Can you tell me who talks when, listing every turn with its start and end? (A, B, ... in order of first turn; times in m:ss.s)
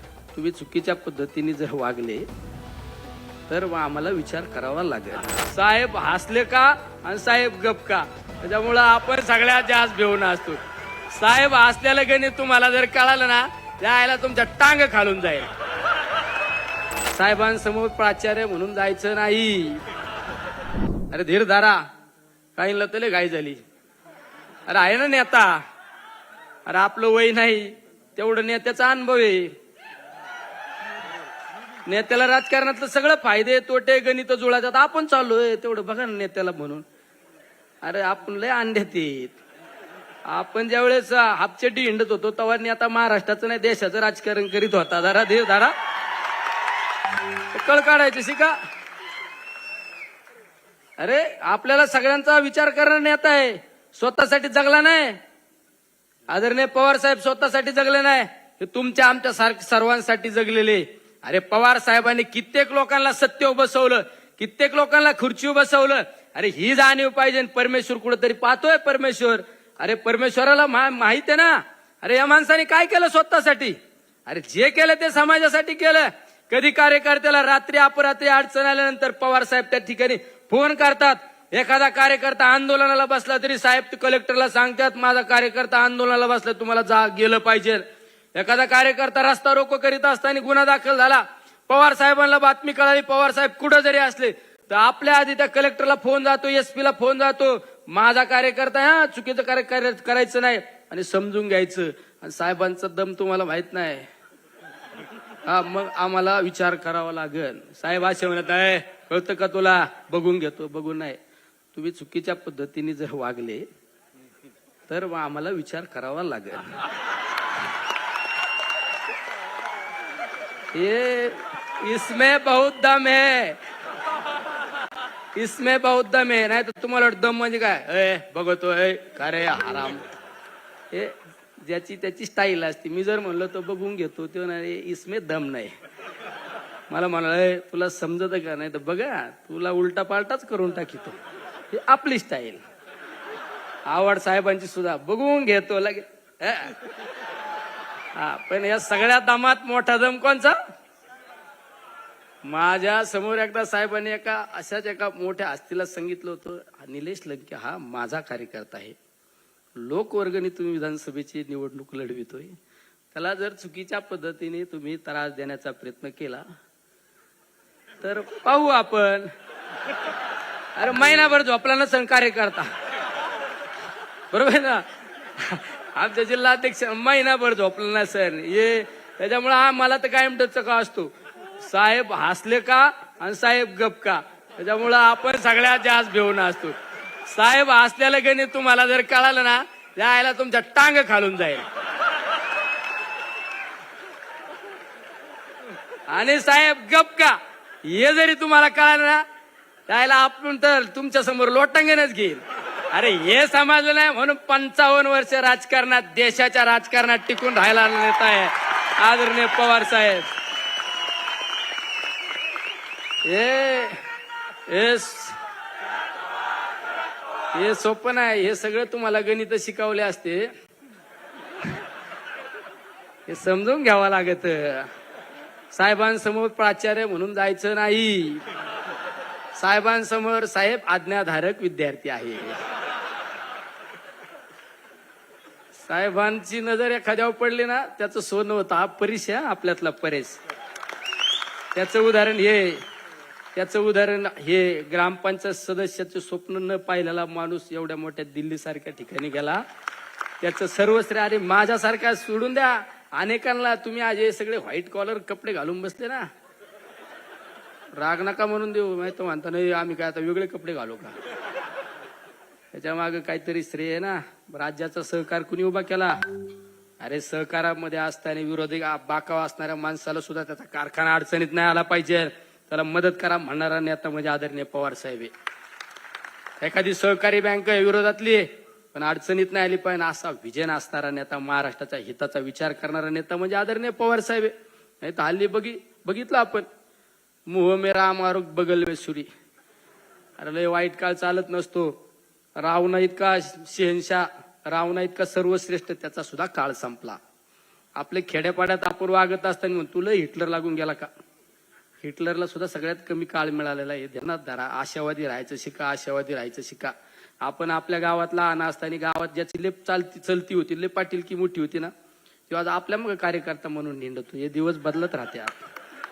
0:00.3-0:02.2 A
0:03.5-0:15.5 A
0:17.1-0:19.8 A
0:21.1-0:21.8 A
0:22.6-0:23.6 A
0:24.7-0:25.6 A
0:26.6-0:29.5 A
0:31.8-0:36.8 A
0:37.8-0:39.4 A
0:40.3-0:45.7 A
0:47.5-0:48.6 A
0:51.0-0:55.2 A
0:56.3-1:44.1 A
1:45.4-1:51.2 A
1:51.7-1:53.6 A
1:54.9-1:56.7 A
2:00.7-2:03.6 A
2:05.3-2:10.1 A
2:10.9-2:15.7 A
2:16.9-2:21.2 A
2:21.7-2:22.6 A
2:23.9-2:26.8 A
2:28.1-2:30.6 A
2:32.4-2:39.0 A
2:39.8-2:42.6 A
2:43.1-2:46.4 A
2:48.0-2:49.3 A
2:50.8-2:52.7 A
2:54.3-3:11.7 A
3:16.1-3:19.2 A
3:19.9-3:30.3 A
3:33.2-3:34.0 A
3:34.7-3:35.4 A
3:37.5-3:40.5 A
3:43.3-3:44.9 A
3:45.7-3:48.4 A
3:49.5-3:52.6 A
3:55.8-4:00.4 A
4:01.7-4:02.8 A
4:03.5-4:09.6 A
4:10.4-4:16.3 A
4:18.0-4:21.1 A
4:22.7-4:26.2 A
4:27.0-4:35.3 A
4:36.6-4:46.7 A
4:47.5-4:49.3 A
4:50.4-4:52.0 A
4:52.6-4:57.2 A
4:58.0-5:01.1 A
5:02.0-5:11.9 A
5:12.5-5:15.6 A